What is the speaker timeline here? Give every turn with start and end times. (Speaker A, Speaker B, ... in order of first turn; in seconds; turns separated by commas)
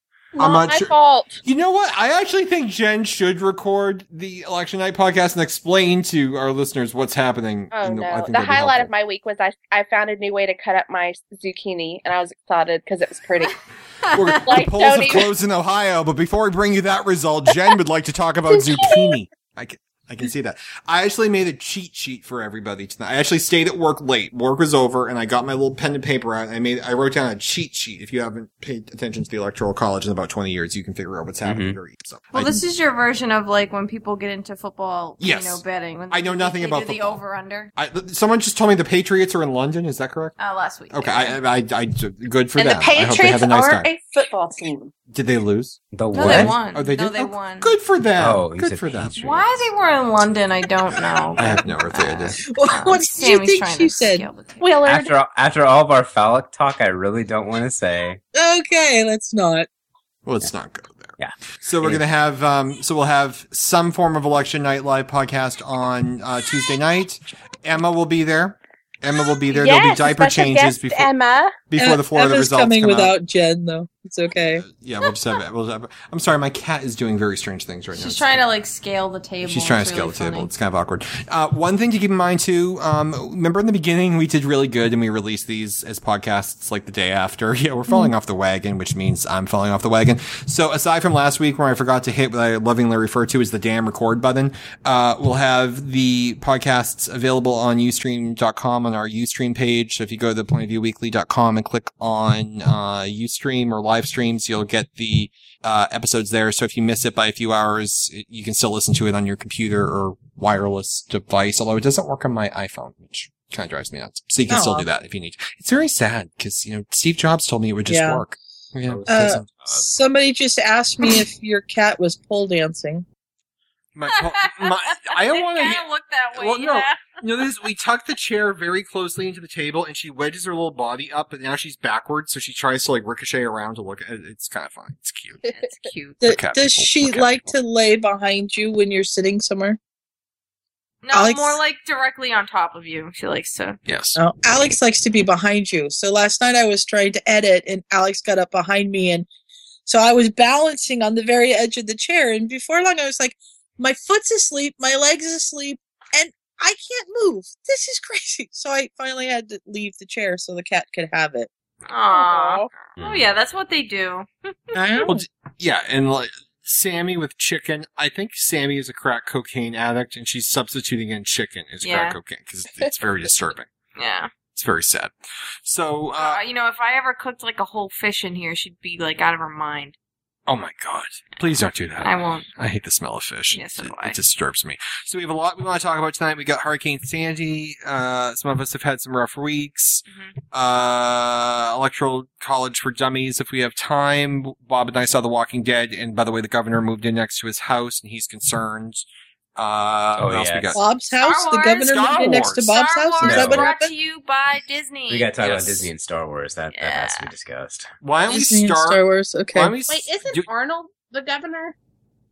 Speaker A: 0.4-1.4, Speaker B: 0.4-8.9, Speaker A: 7.7-13.6, Speaker B: 14.1-32.6, Speaker C: 14.1-14.4, Speaker A: 14.5-15.3, Speaker A: 18.5-19.1, Speaker D: 31.4-31.8, Speaker C: 32.3-37.7, Speaker B: 35.2-37.2, Speaker B: 37.8-40.4, Speaker C: 40.4-41.4, Speaker B: 40.9-43.9, Speaker A: 42.6-44.9, Speaker B: 45.1-49.1, Speaker D: 45.9-46.6, Speaker C: 46.1-47.7, Speaker D: 48.2-49.5, Speaker C: 49.2-54.6, Speaker B: 51.4-52.4, Speaker E: 52.4-54.3, Speaker A: 54.6-55.1, Speaker D: 54.9-58.2, Speaker E: 58.4-59.7, Speaker B: 60.3-71.1, Speaker D: 61.2-62.0, Speaker A: 69.5-71.6, Speaker B: 71.7-73.1, Speaker E: 71.8-74.7, Speaker B: 74.6-78.4, Speaker C: 77.9-80.5, Speaker B: 79.4-119.5, Speaker E: 114.5-114.9, Speaker E: 117.9-118.2, Speaker D: 118.9-119.9, Speaker E: 119.1-123.0, Speaker B: 124.0-135.4, Speaker C: 124.1-127.2, Speaker C: 135.5-136.2, Speaker E: 136.2-139.8, Speaker B: 136.2-137.5, Speaker C: 141.0-143.8, Speaker E: 141.1-141.6, Speaker B: 143.9-144.2, Speaker E: 144.2-149.3, Speaker E: 149.9-161.5, Speaker C: 161.9-165.1, Speaker A: 162.1-162.7, Speaker D: 163.0-163.3, Speaker B: 164.8-173.7, Speaker C: 171.8-172.2, Speaker C: 174.0-174.3, Speaker B: 174.5-176.4, Speaker C: 176.2-179.9, Speaker B: 180.5-199.1, Speaker C: 182.0-182.5, Speaker C: 183.5-184.2, Speaker C: 190.1-190.3, Speaker B: 199.6-200.8, Speaker D: 200.2-200.8, Speaker E: 200.7-203.9, Speaker C: 201.2-205.8, Speaker B: 201.8-202.8, Speaker D: 203.2-203.7, Speaker D: 205.1-207.9, Speaker C: 206.7-207.3, Speaker B: 208.0-209.0, Speaker E: 208.3-209.8, Speaker B: 209.5-210.5, Speaker A: 209.9-211.8